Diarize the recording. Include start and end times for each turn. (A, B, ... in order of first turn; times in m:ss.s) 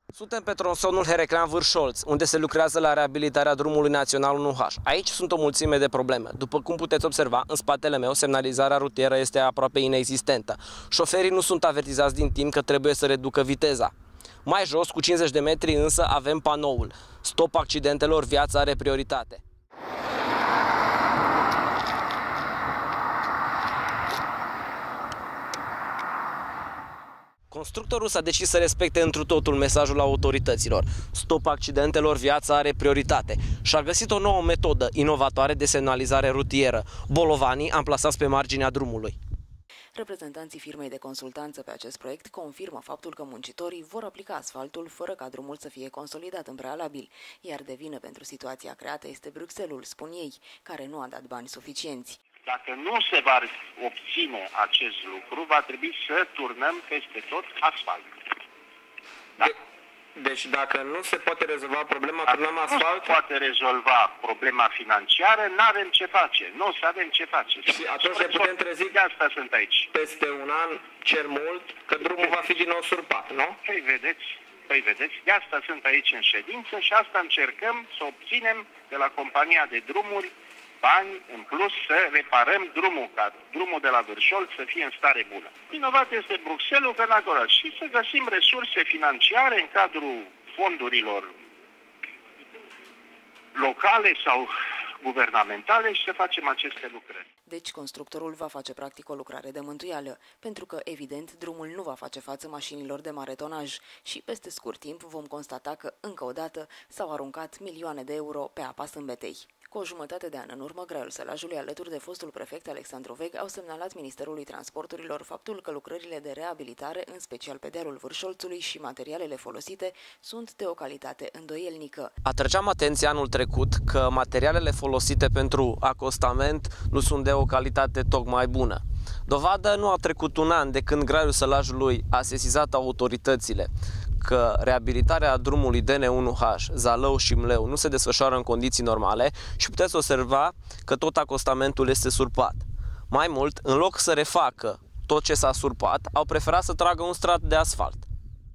0:00.1-0:13.9 A
0:14.4-0:19.4 A
0:27.5-0:39.2 A
0:40.0-0:52.2 B
0:52.4-0:58.2 C
1:00.2-1:03.1 A
1:02.7-1:09.9 C
1:07.7-1:09.0 A
1:09.9-1:13.6 A
1:13.6-1:31.3 C
1:33.5-1:37.2 C
1:37.5-2:02.1 B
2:02.2-2:28.1 A